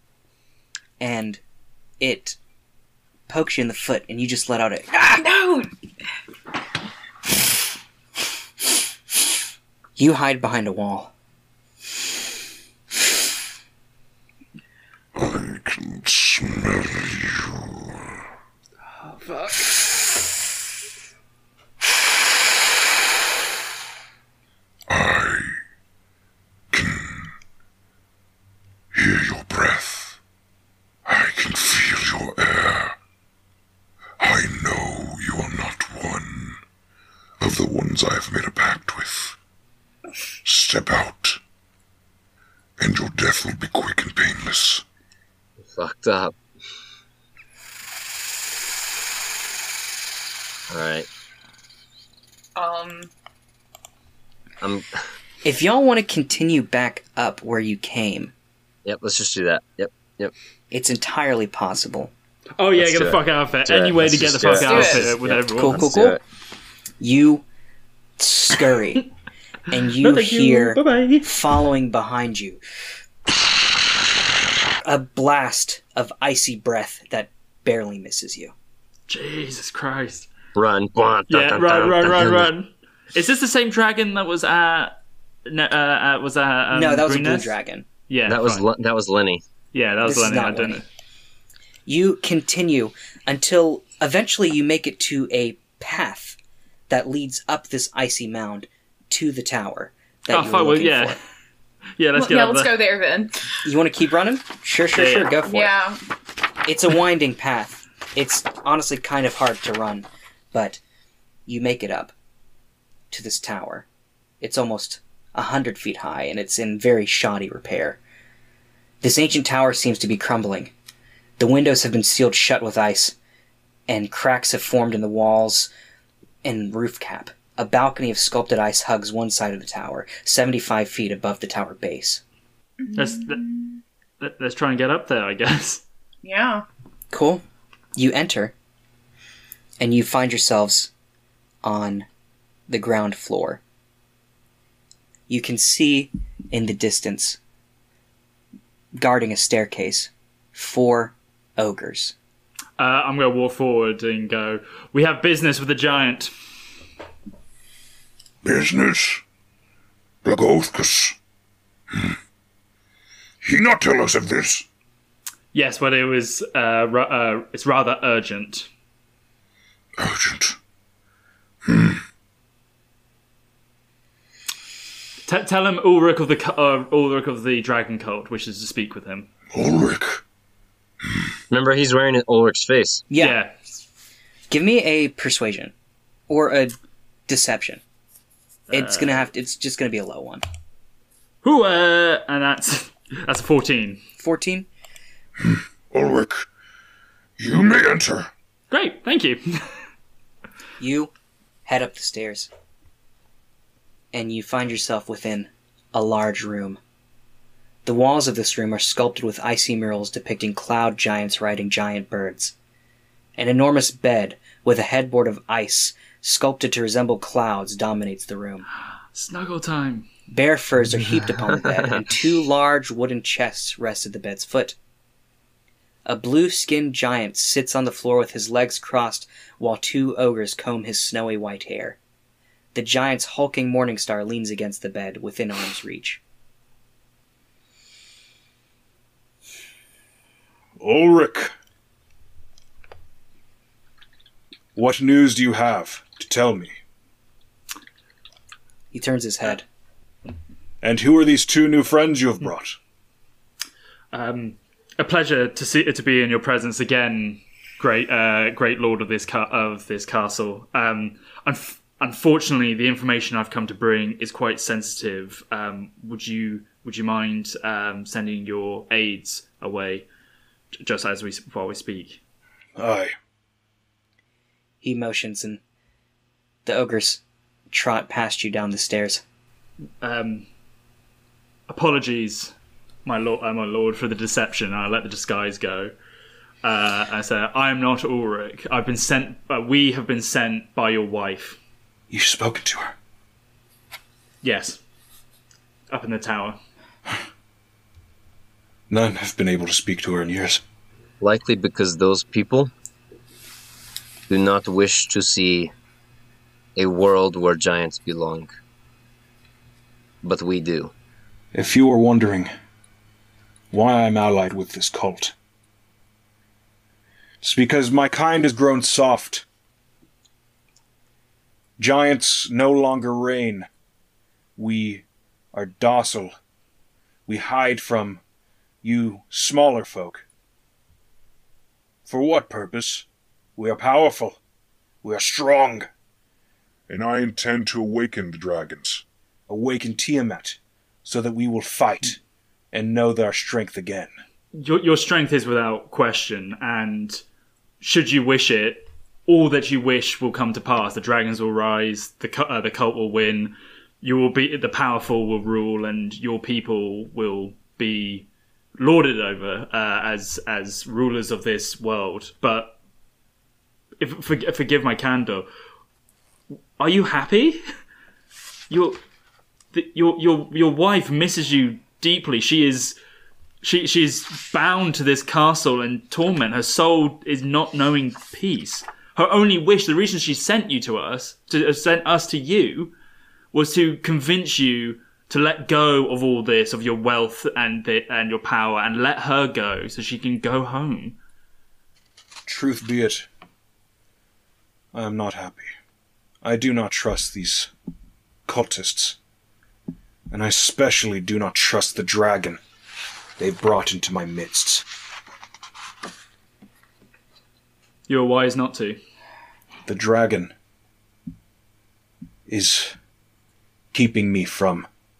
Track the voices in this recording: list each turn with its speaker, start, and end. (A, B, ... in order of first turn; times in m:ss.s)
0:01.0-0:01.4 A
0:02.0-0:02.4 A
0:03.3-0:05.2 A
0:05.2-0:05.7 B
0:10.0-0:11.1 A
0:15.2-0:18.2 C
0:19.0-0:19.8 D
0:24.9-0:25.6 C
0:26.7-0:27.3 C
0:28.9-0:30.2 C
0:31.0-0:33.0 C
0:34.2-0:36.6 C
0:37.4-0:39.4 C
0:40.4-0:41.4 C
0:42.8-0:44.8 C
0:45.8-0:46.4 E
0:50.7-0:51.1 E
0:52.6-0:53.1 B
0:54.6-0:55.0 E
0:55.4-0:58.3 A
0:58.8-1:00.3 E
1:00.7-1:02.1 A
1:02.6-1:05.9 D
1:02.8-1:06.2 E
1:04.6-1:05.1 B
1:05.5-1:06.2 A
1:07.0-1:07.4 A
1:08.2-1:09.1 A
1:09.7-1:12.6 A
1:09.9-1:11.3 D
1:14.8-1:18.5 A
1:19.1-1:20.3 D
1:20.6-1:22.5 E
1:21.3-1:25.0 D
1:25.5-1:27.5 D
1:26.7-1:27.9 A
1:28.1-1:28.7 D
1:28.3-1:29.4 E
1:29.7-1:30.8 D
1:30.0-1:30.8 A
1:31.9-1:36.4 A
1:36.9-1:41.2 A
1:40.3-1:41.2 D
1:42.0-1:42.8 D
1:42.2-1:43.5 B
1:43.6-1:45.7 A
1:44.9-1:45.4 D
1:45.4-1:46.0 B
1:46.6-1:50.8 A
1:51.5-1:52.1 A
1:53.1-1:53.9 A
1:54.4-1:58.0 A
1:59.0-2:00.7 A
2:01.4-2:03.2 A
2:03.9-2:05.7 A
2:06.4-2:12.2 A
2:12.9-2:13.4 B
2:13.0-2:13.4 D
2:14.2-2:15.8 D
2:16.2-2:16.7 B
2:17.1-2:17.4 A
2:18.0-2:18.5 A
2:19.8-2:20.9 A
2:21.6-2:22.1 A
2:22.7-2:23.6 A
2:25.3-2:27.4 A
2:29.0-2:32.1 A
2:32.8-2:36.3 D
2:38.4-2:39.2 C
2:40.2-2:41.2 C
2:43.4-2:44.6 C
2:45.5-2:48.7 D
2:50.0-2:50.6 C
2:51.6-2:52.0 C
2:55.3-2:59.3 D
2:59.5-3:00.2 C
3:01.5-3:03.0 E
3:03.1-3:03.4 A
3:03.2-3:03.5 D
3:04.5-3:05.7 A
3:06.3-3:06.8 A
3:07.3-3:07.8 A
3:08.7-3:09.2 D
3:08.7-3:10.4 A
3:11.4-3:14.0 D
3:14.2-3:14.7 A
3:15.4-3:16.5 C
3:17.4-3:18.3 C
3:18.7-3:19.7 D
3:20.8-3:21.1 A
3:21.7-3:22.5 A
3:24.1-3:26.8 A
3:27.8-3:32.6 A
3:33.4-3:38.6 A
3:39.1-3:40.1 D
3:40.3-3:44.8 A
3:46.1-3:52.0 A
3:52.7-3:56.2 A
4:00.8-4:01.5 F
4:04.8-4:06.8 F
4:08.9-4:09.6 A
4:10.8-4:12.8 F
4:14.1-4:30.1 D
4:30.8-4:32.2 D
4:32.8-4:33.1 F
4:34.8-4:35.6 A
4:36.7-4:39.2 A
4:40.0-4:40.4 D
4:41.7-4:42.5 D
4:43.0-4:45.9 D
4:46.6-4:51.6 D
4:52.1-4:52.9 F
4:54.4-4:54.8 D
4:55.9-4:56.6 D
4:58.9-5:00.6 F
5:01.2-5:02.7 E
5:04.3-5:05.7 E
5:06.8-5:08.5 E
5:10.2-5:10.9 E
5:11.5-5:12.5 F
5:13.7-5:15.3 F
5:17.4-5:19.4 F
5:21.8-5:23.7 F
5:24.6-5:26.3 F
5:27.3-5:28.2 F
5:28.8-5:30.2 F
5:32.1-5:33.1 F
5:33.6-5:34.4 F
5:35.0-5:35.9 F
5:36.9-5:39.0 C
5:39.5-5:42.2 F
5:42.7-5:44.1 F
5:44.6-5:47.2 D
5:47.8-5:58.3 D
5:58.8-6:02.8 D
6:04.0-6:05.5 D
6:06.8-6:07.6 D
6:08.7-6:09.0 D
6:09.7-6:13.0 D
6:13.6-6:22.9 D
6:23.5-6:31.2 D
6:32.5-6:33.3 F
6:34.9-6:35.7 F
6:36.4-6:37.7 F
6:38.5-6:39.2 F
6:40.3-6:42.6 F
6:43.4-6:44.8 F
6:48.1-6:49.0 D
6:49.9-6:50.5 F
6:52.5-6:53.0 F
6:53.9-6:54.9 F